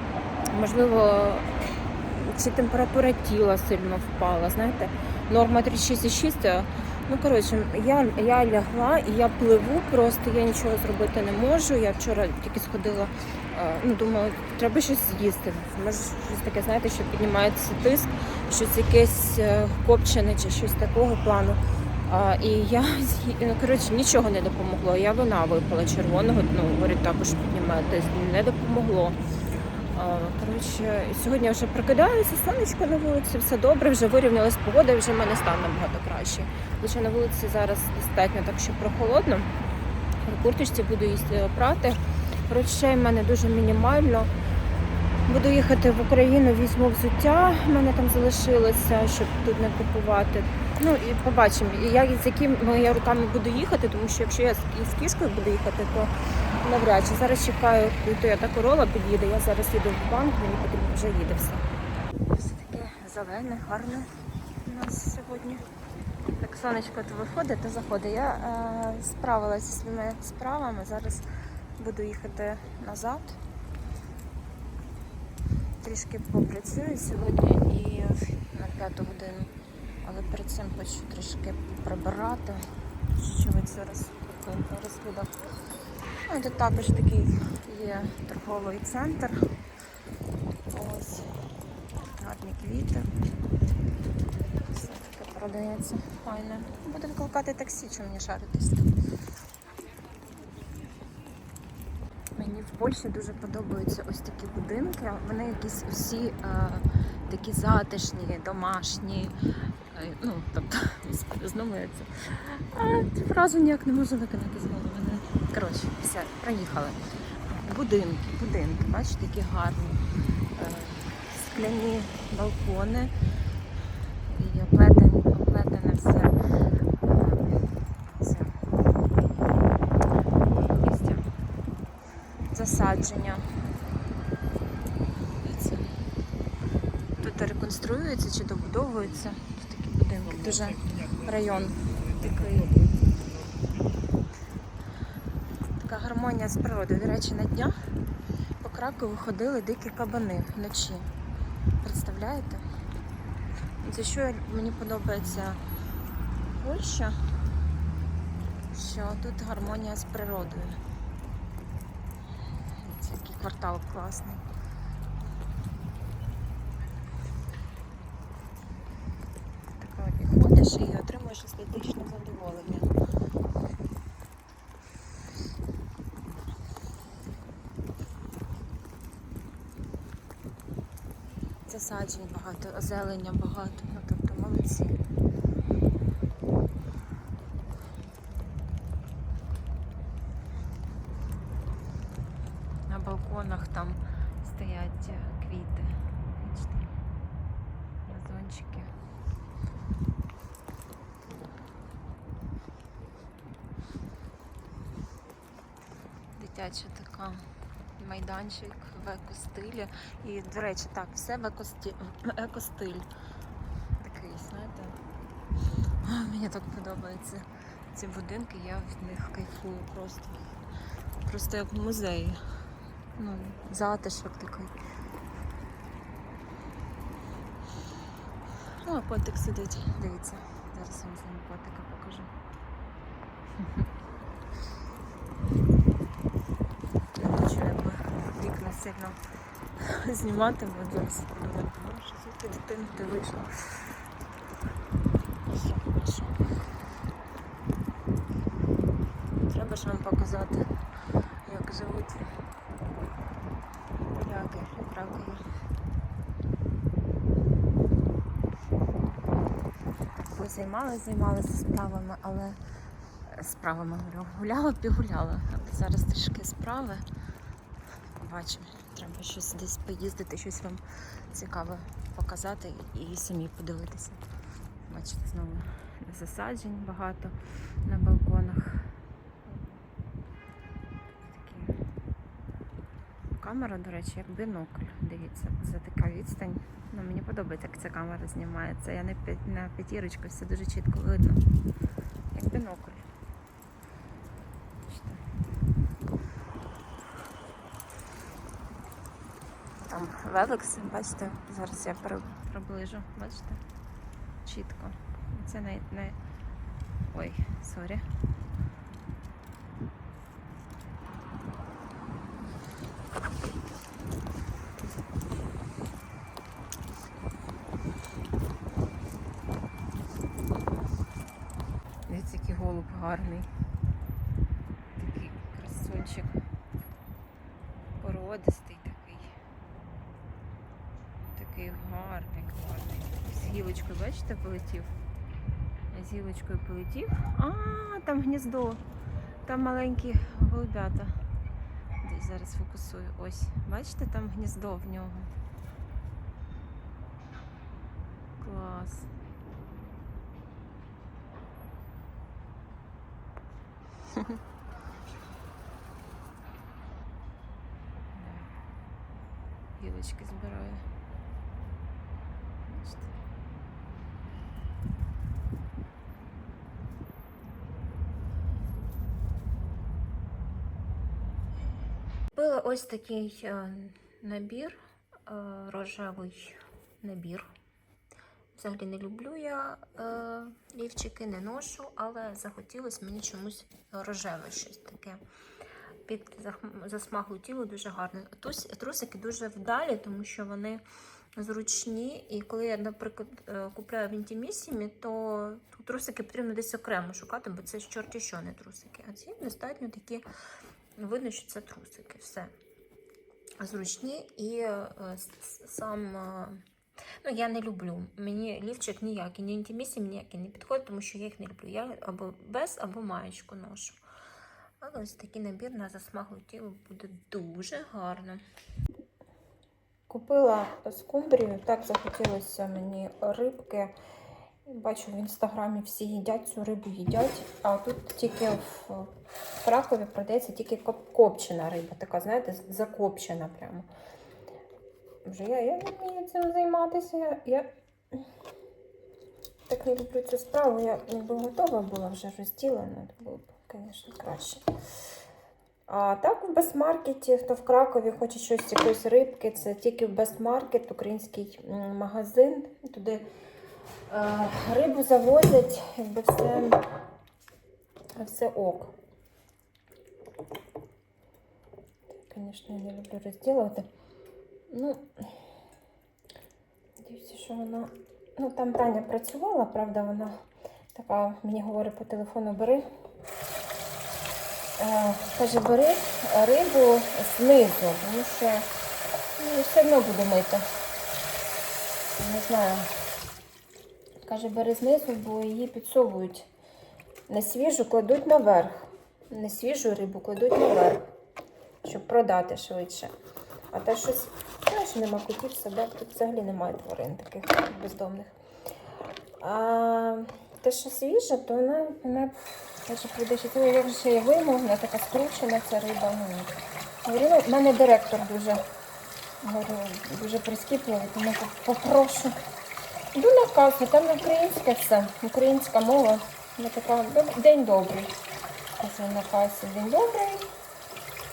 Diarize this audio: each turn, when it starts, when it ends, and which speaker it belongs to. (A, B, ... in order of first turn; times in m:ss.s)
0:00.5-0:29.2 A
0:29.9-0:39.6 A
0:40.2-0:44.3 A
0:45.3-1:01.7 A
1:02.3-1:05.7 A
1:06.4-1:11.3 A
1:11.8-1:13.4 A
1:15.8-1:25.4 A
1:26.3-1:29.5 A
1:30.7-1:31.4 A
1:32.1-1:33.1 A
1:34.7-1:38.9 A
1:42.4-2:03.1 A
2:04.3-2:06.4 A
2:07.0-2:08.6 A
2:10.5-2:11.3 A
2:12.5-2:13.5 A
2:15.4-2:15.9 A
2:17.2-2:23.0 A
2:25.8-2:27.8 A
2:28.6-2:31.1 A
2:31.8-2:32.6 A
2:33.8-2:35.6 A
2:36.5-2:37.2 A
2:38.7-2:40.8 A
2:42.7-2:44.4 A
2:49.8-2:52.9 A
3:01.7-3:05.0 A
3:12.9-3:16.9 A
3:18.0-3:18.9 A
3:26.4-3:27.5 A
3:28.0-3:33.1 A
3:34.0-3:35.0 A
3:36.0-3:40.4 A
3:41.2-3:42.6 A
3:43.2-3:44.8 A
3:48.8-3:52.3 A
3:57.1-3:59.2 A
3:59.8-4:03.9 A
4:05.4-4:06.5 A
4:09.4-4:10.7 A
4:11.4-4:12.3 A
4:14.1-4:15.4 A
4:20.3-4:22.6 A
4:23.3-4:27.0 A
4:28.2-4:34.2 A
4:34.9-4:39.8 A
4:41.2-4:41.8 A
4:43.3-4:51.4 A
4:52.3-4:53.1 A
4:54.9-4:55.2 A
4:59.8-5:03.6 A
5:04.4-5:06.2 A
5:07.1-5:08.1 A
5:22.1-5:23.5 A
5:25.0-5:26.4 A
5:28.0-5:29.4 A
5:31.3-5:34.9 A
5:35.9-5:38.8 A
5:39.5-5:41.2 A
5:42.0-5:45.3 A
5:48.4-5:49.1 A
5:58.2-5:58.5 A
5:59.8-6:00.9 A
6:02.7-6:03.1 A
6:12.3-6:17.5 A
6:18.6-6:25.2 A
6:26.1-6:30.8 A
6:31.4-6:40.3 A
6:41.0-6:42.5 A
6:43.6-6:46.6 A
6:47.2-6:54.0 A
6:54.8-6:58.4 A
7:00.1-7:04.0 A
7:04.6-7:13.9 A
7:15.2-7:18.2 A
7:19.7-7:24.6 A
7:25.9-7:33.2 A
7:34.1-7:36.8 A
7:38.2-7:38.9 A
7:42.1-7:43.9 A
7:44.7-7:45.4 A
7:47.0-7:50.4 A
7:50.9-7:52.9 A
7:54.8-7:58.7 A
7:59.4-8:00.7 A
8:02.2-8:02.9 A
8:04.2-8:06.5 A
8:07.3-8:11.1 A
8:11.8-8:13.1 A
8:13.7-8:18.4 A
8:19.4-8:28.6 A
8:29.4-8:32.4 A
8:33.1-8:38.2 A
8:38.8-8:40.5 A